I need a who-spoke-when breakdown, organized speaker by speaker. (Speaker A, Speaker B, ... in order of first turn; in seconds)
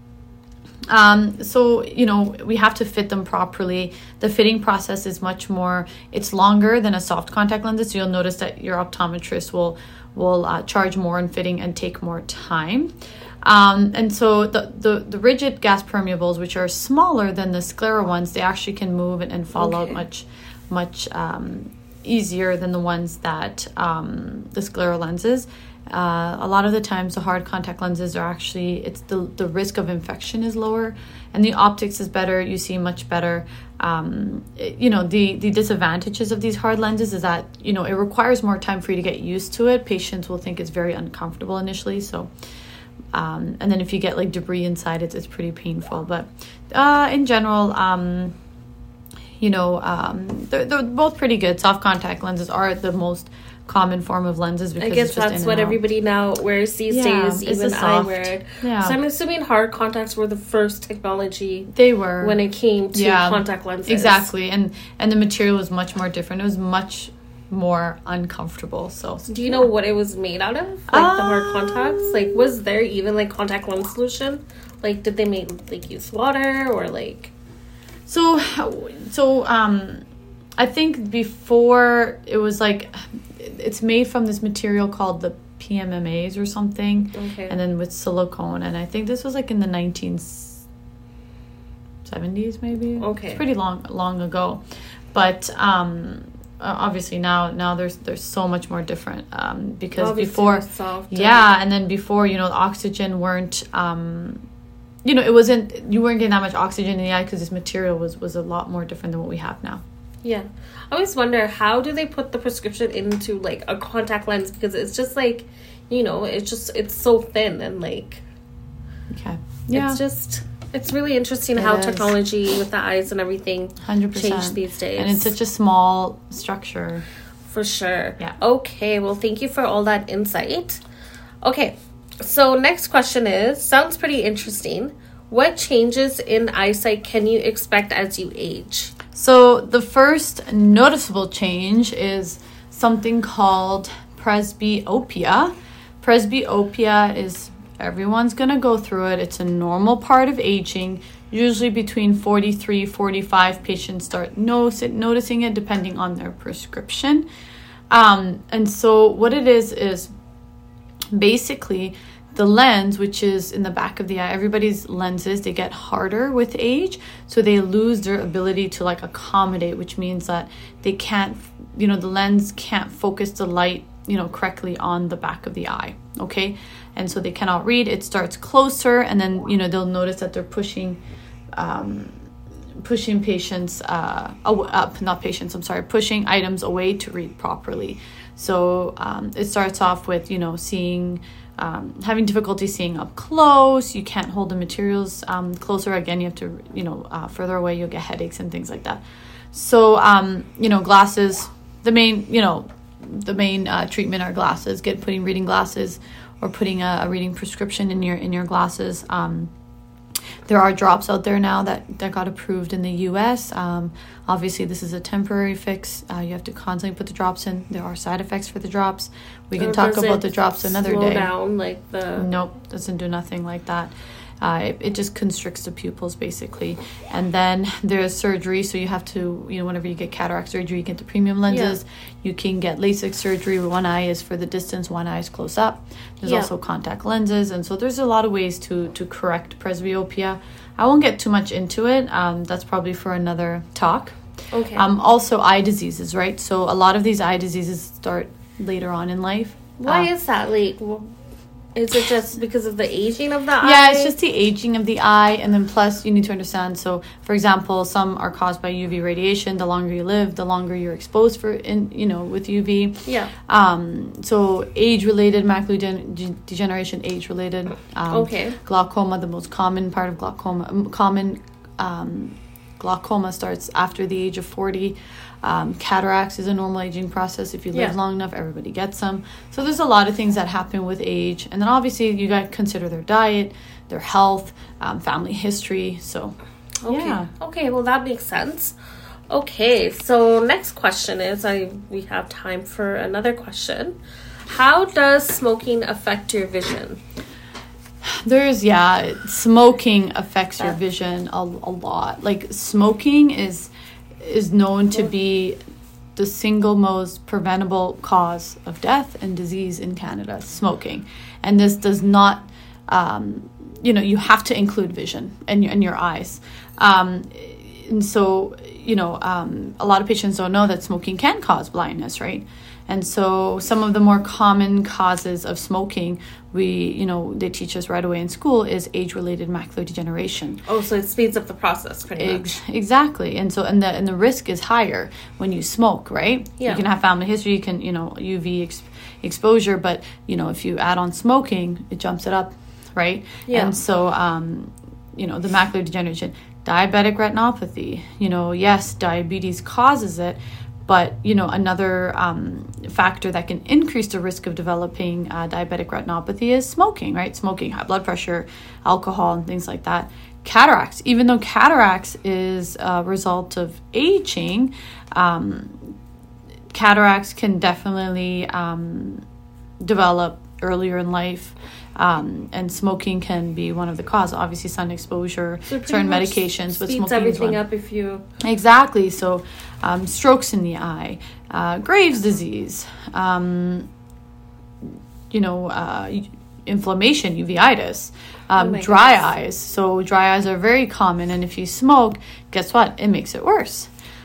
Speaker A: 0.9-42.3, 43.1-48.3, 49.4-55.8, 56.9-59.0, 61.7-62.4, 62.9-69.7, 70.9-72.5, 78.1-80.0, 80.6-90.6, 92.0-104.4, 105.0-109.8, 119.1-120.0, 121.5-122.2, 123.8-127.0, 139.1-157.3, 157.9-160.1, 161.1-181.0, 181.6-182.2, 182.8-209.5, 210.5-221.3, 222.2-244.2, 244.7-250.1, 253.6-286.4, 286.9-287.3, 298.1-305.6, 306.2-330.6, 332.2-365.9, 366.7-369.2, 369.8-377.6, 378.4-383.9, 385.3-393.9
Speaker B: 19.6-20.0, 54.8-64.3, 69.3-77.3, 87.1-87.6, 93.0-93.4, 100.0-101.5, 110.2-118.2, 119.7-125.3, 127.5-130.8, 131.4-138.9, 219.6-222.3, 231.5-231.8, 236.2-236.5, 244.5-244.9, 249.8-251.1, 251.7-254.2, 263.1-263.3, 268.1-268.6, 286.8-288.8, 289.3-297.0, 330.7-332.6, 343.5-343.8, 375.7-378.2, 388.6-389.3